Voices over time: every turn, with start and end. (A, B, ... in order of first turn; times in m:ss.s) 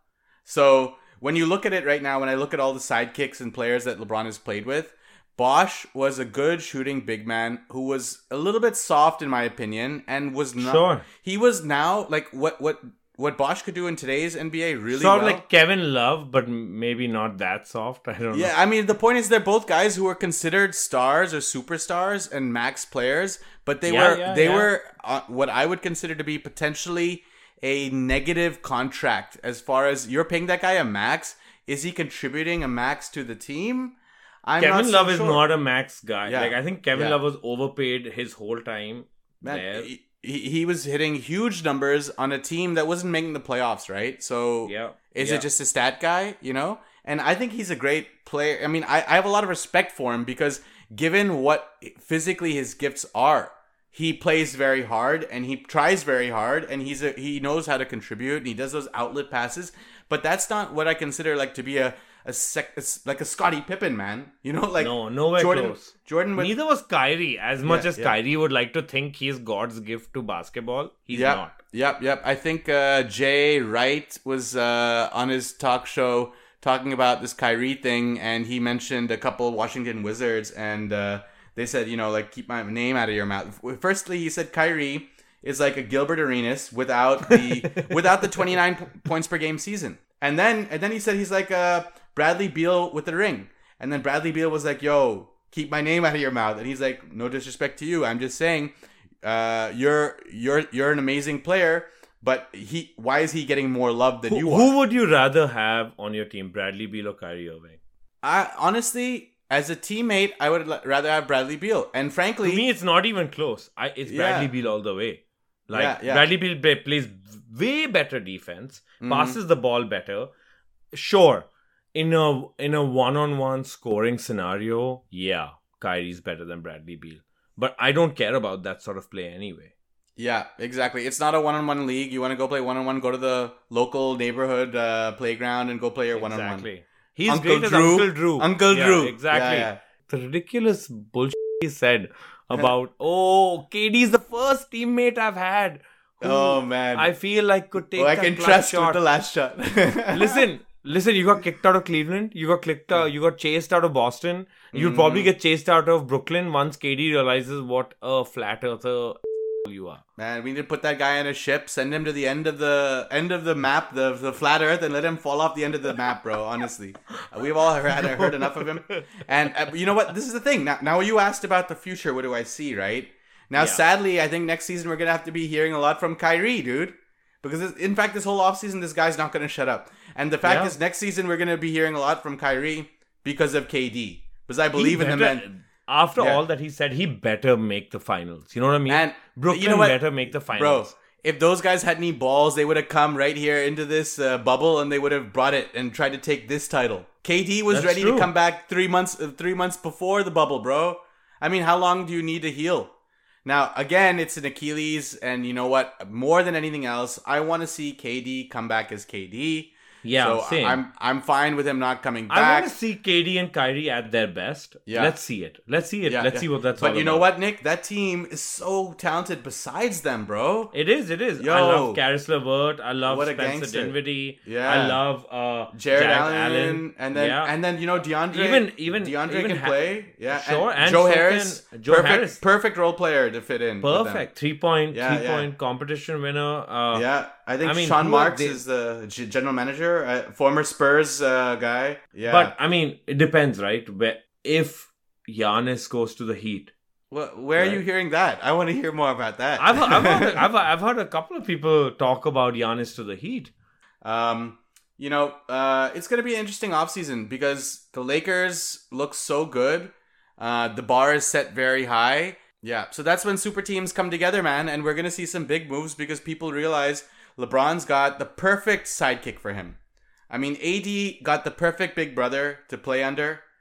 0:00.4-0:15.4 A
0:10.6-0:11.0 B
0:14.9-0:18.5 B
0:18.3-0:35.4 A
0:23.8-0:24.7 B
0:34.6-0:39.9 B
0:36.2-0:37.2 A
0:39.4-1:06.5 A
0:44.6-0:45.4 B
1:04.8-1:11.6 B
1:07.6-1:08.1 A
1:11.1-1:44.7 A
1:27.3-1:28.5 B
1:44.3-1:47.8 B
1:48.2-1:52.6 A
1:52.4-2:00.3 B
1:54.0-1:54.5 A
1:55.7-1:56.2 A
1:59.0-1:59.4 A
2:00.9-2:09.7 B
2:10.2-2:16.7 A
2:16.1-2:29.0 B
2:17.3-2:19.8 A
2:26.2-2:27.1 A
2:27.9-2:30.4 A
2:30.1-2:40.0 B
2:34.7-2:35.3 A
2:40.2-3:05.4 A
2:48.0-2:49.1 B
2:53.6-2:53.8 B
3:00.4-3:00.7 B
3:04.7-3:10.9 B
3:06.2-3:06.4 A
3:08.9-3:22.9 A
3:17.7-3:18.3 B
3:23.4-3:32.7 A
3:30.0-3:30.8 B
3:32.3-3:37.3 B
3:34.9-3:35.2 A
3:36.0-3:40.7 A
3:40.7-3:47.5 B
3:41.4-3:42.0 A
3:43.0-3:45.0 A
3:45.7-3:54.3 A
3:48.3-3:52.4 B
3:53.8-3:57.0 B
3:54.9-3:55.5 A
3:56.9-4:02.5 A
3:57.6-3:58.6 B
4:02.3-4:06.7 B
4:07.1-4:10.4 A
4:07.5-4:07.8 B
4:09.6-4:13.5 B
4:14.0-4:29.8 A
4:30.3-4:33.4 A